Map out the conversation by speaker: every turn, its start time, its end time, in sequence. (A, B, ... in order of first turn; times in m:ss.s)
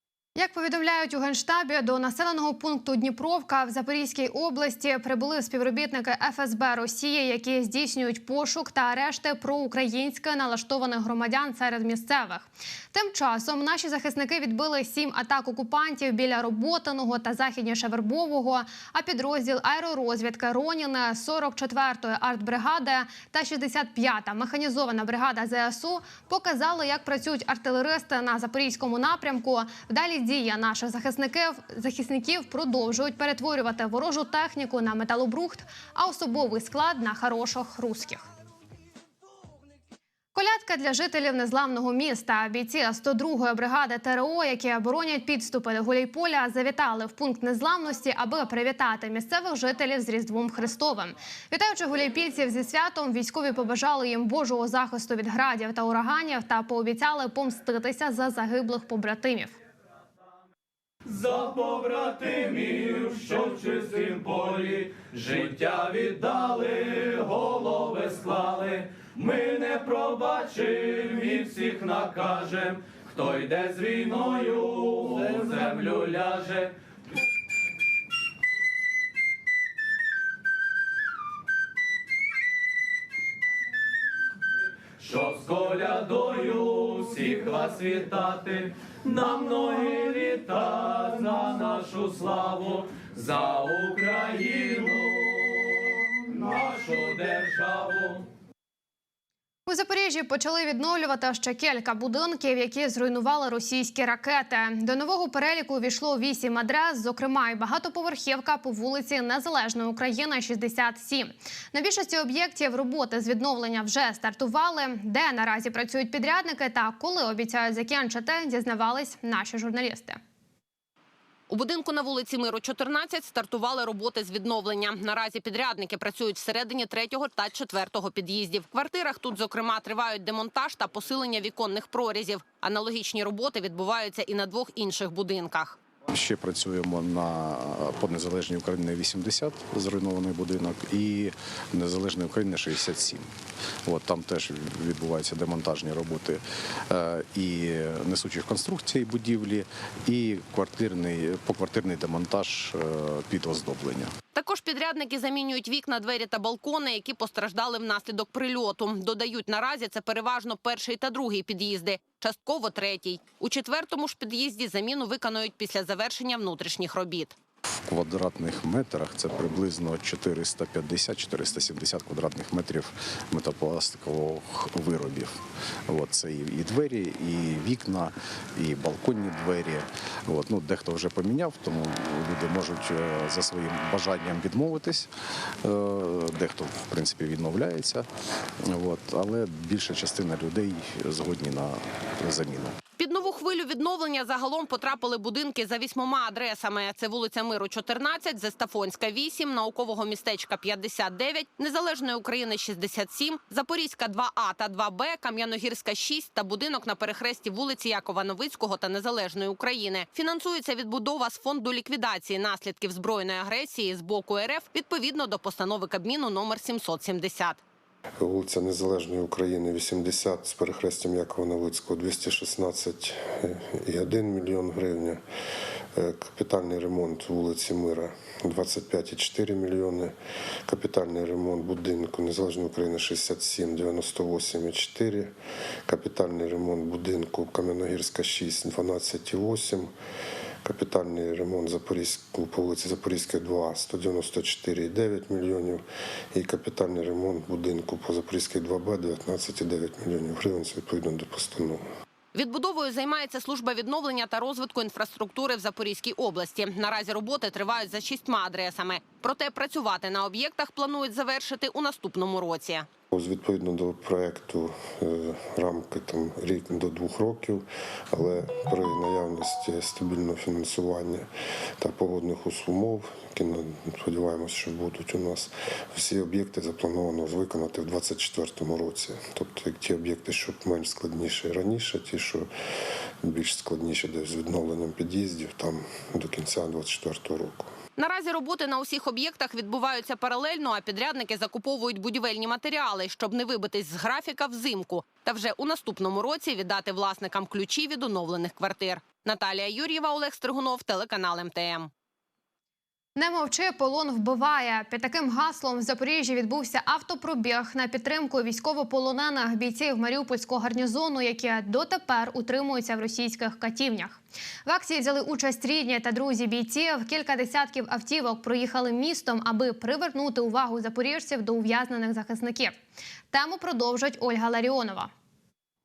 0:00.4-0:38.3 A
0:40.3-0:59.6 A
1:01.1-1:16.7 B
1:25.0-1:38.2 B
1:39.7-2:00.2 A
2:01.5-2:15.8 C
2:16.1-2:23.3 D
2:23.8-2:34.1 D
2:34.3-2:47.3 C
2:47.8-3:05.1 D
3:05.6-3:08.1 D
3:08.6-3:12.7 D
3:13.0-3:37.6 C
3:38.2-3:45.2 E
3:45.9-3:50.1 E
3:50.7-3:55.3 E
3:55.9-3:59.9 E
4:00.6-4:11.8 E
4:12.3-4:22.9 C
4:23.1-4:31.3 E
4:31.8-4:42.5 E
4:43.2-4:47.7 E
4:48.0-5:01.9 C
5:03.2-5:22.7 A
5:23.3-5:25.1 A